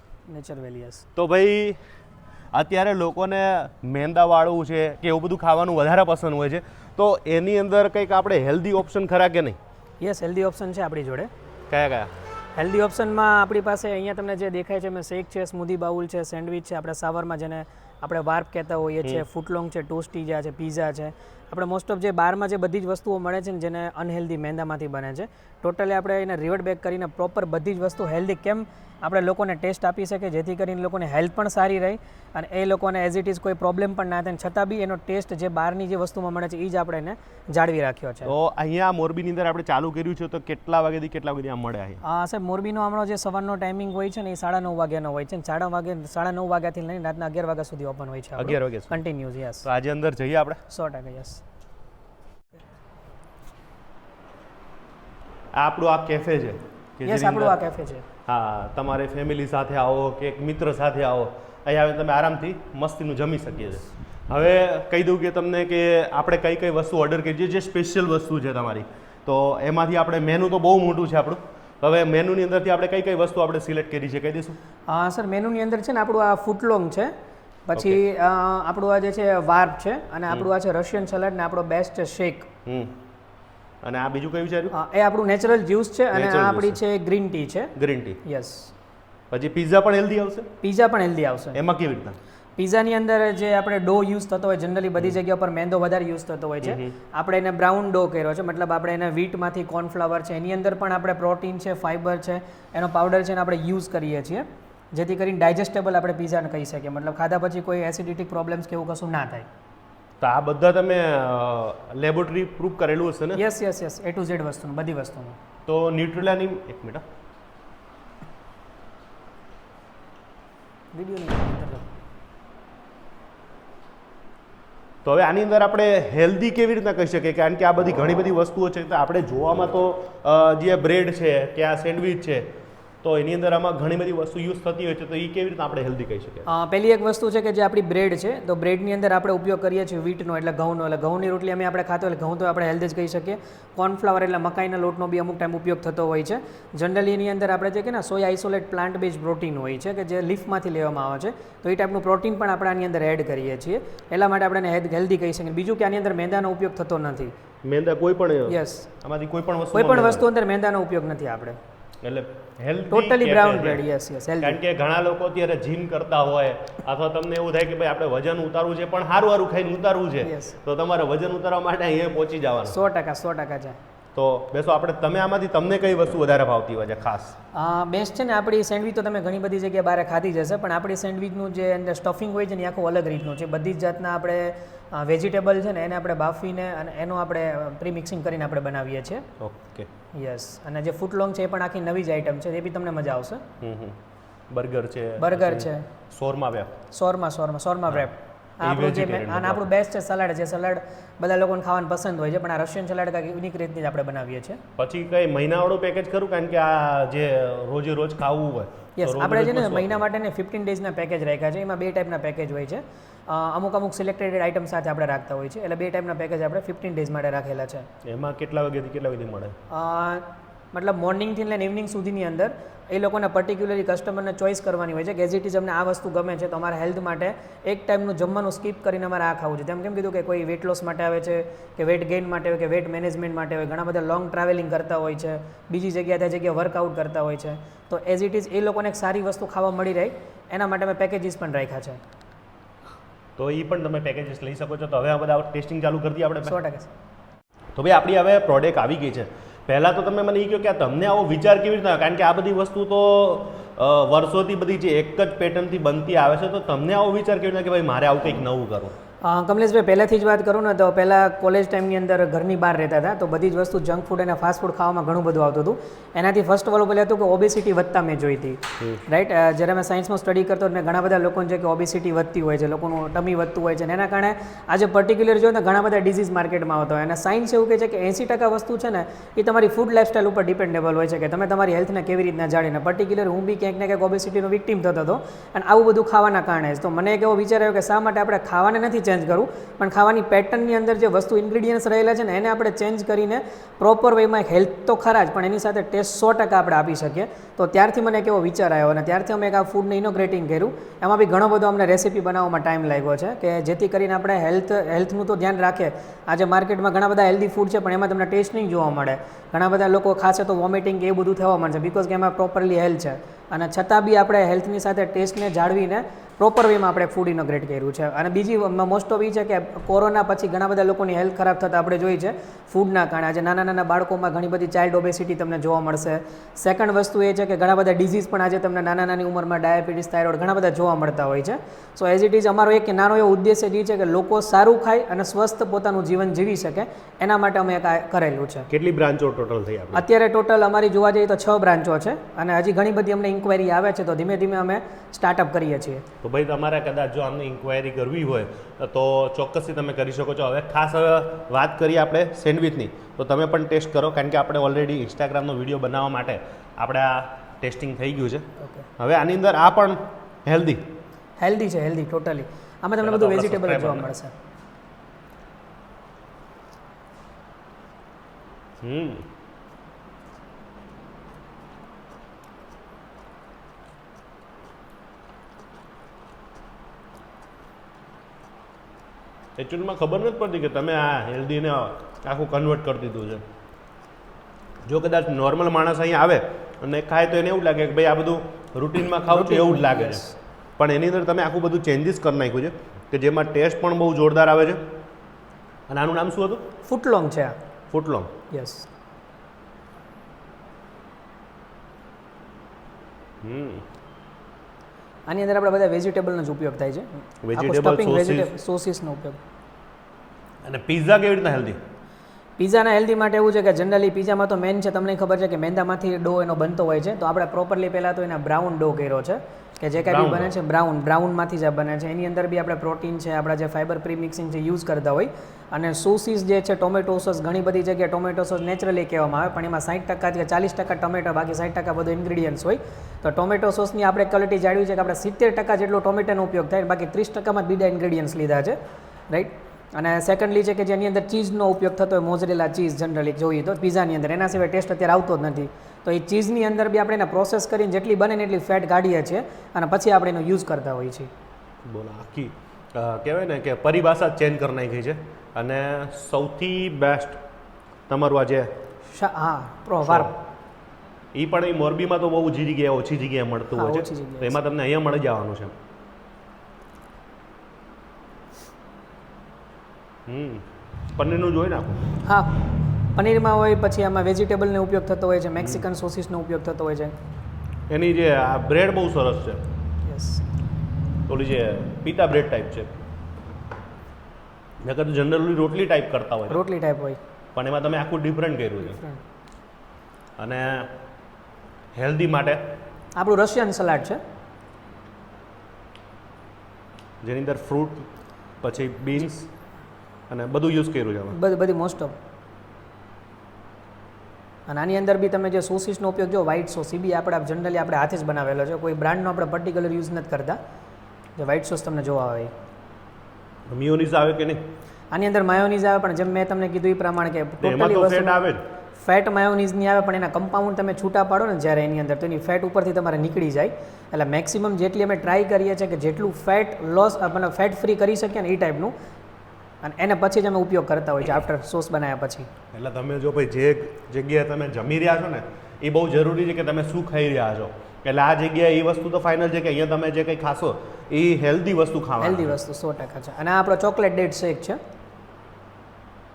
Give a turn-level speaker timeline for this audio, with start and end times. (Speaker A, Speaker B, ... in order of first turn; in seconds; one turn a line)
Speaker A: 0.3-1.1
Speaker B: 1.1-1.8
Speaker B: 2.5-9.6
Speaker A: 10.0-11.3
Speaker B: 11.7-12.1
Speaker A: 12.6-38.3
Speaker B: 38.2-42.0
Speaker A: 42.0-49.6
Speaker B: 48.4-49.0
Speaker B: 49.6-50.6
Speaker A: 50.7-51.4
Speaker B: 55.5-57.5
Speaker A: 57.0-58.0
Speaker B: 58.2-74.6
Speaker A: 74.9-77.1
Speaker A: 77.7-82.5
Speaker B: 82.7-83.0
Speaker B: 83.8-84.7
Speaker A: 84.7-87.7
Speaker B: 86.1-86.8
Speaker B: 87.8-88.2
Speaker A: 88.2-88.7
Speaker B: 89.3-90.5
Speaker A: 90.6-91.6
Speaker B: 91.5-92.2
Speaker A: 92.6-109.5
Speaker B: 96.6-96.9
Speaker B: 110.2-113.4
Speaker A: 113.3-115.4
Speaker B: 115.7-117.0
Speaker A: 120.9-121.9
Speaker B: 125.0-132.5
Speaker B: 133.0-136.5
Speaker A: 136.5-157.3
Speaker B: 157.6-160.2
Speaker A: 158.5-158.9
Speaker A: 159.7-161.6
Speaker B: 162.0-163.8
Speaker A: 162.9-164.6
Speaker B: 164.4-172.8
Speaker A: 170.2-170.6
Speaker A: 172.7-173.8
Speaker B: 174.1-177.3
Speaker A: 177.5-189.2
Speaker B: 189.4-189.9
Speaker A: 190.1-193.4
Speaker B: 193.6-194.0
Speaker B: 194.5-196.7
Speaker A: 195.2-195.8
Speaker A: 196.9-204.6
Speaker B: 198.6-199.7
Speaker B: 204.8-210.0
Speaker A: 209.0-217.9
Speaker B: 218.0-219.6
Speaker A: 219.7-242.0
Speaker B: 243.4-246.5
Speaker A: 246.4-246.9
Speaker B: 247.7-258.9
Speaker A: 259.2-338.7
Speaker B: 338.7-340.0
Speaker A: 339.9-346.0
Speaker B: 346.2-358.4
Speaker A: 358.6-358.9
Speaker B: 359.0-360.8
Speaker A: 361.4-364.3
Speaker B: 363.0-364.1
Speaker B: 368.8-369.2
Speaker B: 379.6-383.4
Speaker B: 384.9-390.2
Speaker A: 389.2-390.3
Speaker B: 390.8-394.8
Speaker B: 395.9-396.6
Speaker A: 396.9-397.5
Speaker B: 397.9-398.3
Speaker A: 398.5-398.9
Speaker B: 403.4-403.8
Speaker A: 405.3-409.4
Speaker B: 407.4-408.5
Speaker B: 410.6-411.8
Speaker A: 412.6-438.8
Speaker B: 420.0-420.5
Speaker A: 439.3-451.3
Speaker B: 451.8-457.4
Speaker B: 458.1-458.7
Speaker A: 459.1-460.3
Speaker B: 460.0-460.3
Speaker B: 461.3-465.7
Speaker A: 463.7-464.6
Speaker B: 470.3-472.0
Speaker A: 472.2-472.6
Speaker A: 473.1-477.1
Speaker B: 477.9-479.6
Speaker A: 480.0-480.4
Speaker B: 481.3-482.9
Speaker B: 484.8-486.6
Speaker A: 486.5-487.2
Speaker B: 487.6-489.0
Speaker B: 490.4-490.9
Speaker B: 491.9-492.7
Speaker A: 493.1-494.2
Speaker B: 497.2-498.1
Speaker B: 498.6-499.5
Speaker B: 500.3-501.3
Speaker A: 501.3-502.1
Speaker A: 504.7-510.6
Speaker A: 511.4-512.5
Speaker B: 513.7-514.6
Speaker A: 515.1-518.4
Speaker B: 517.6-518.6
Speaker A: 519.0-528.9
Speaker A: 529.8-532.5
Speaker B: 532.7-542.6
Speaker A: 542.2-544.8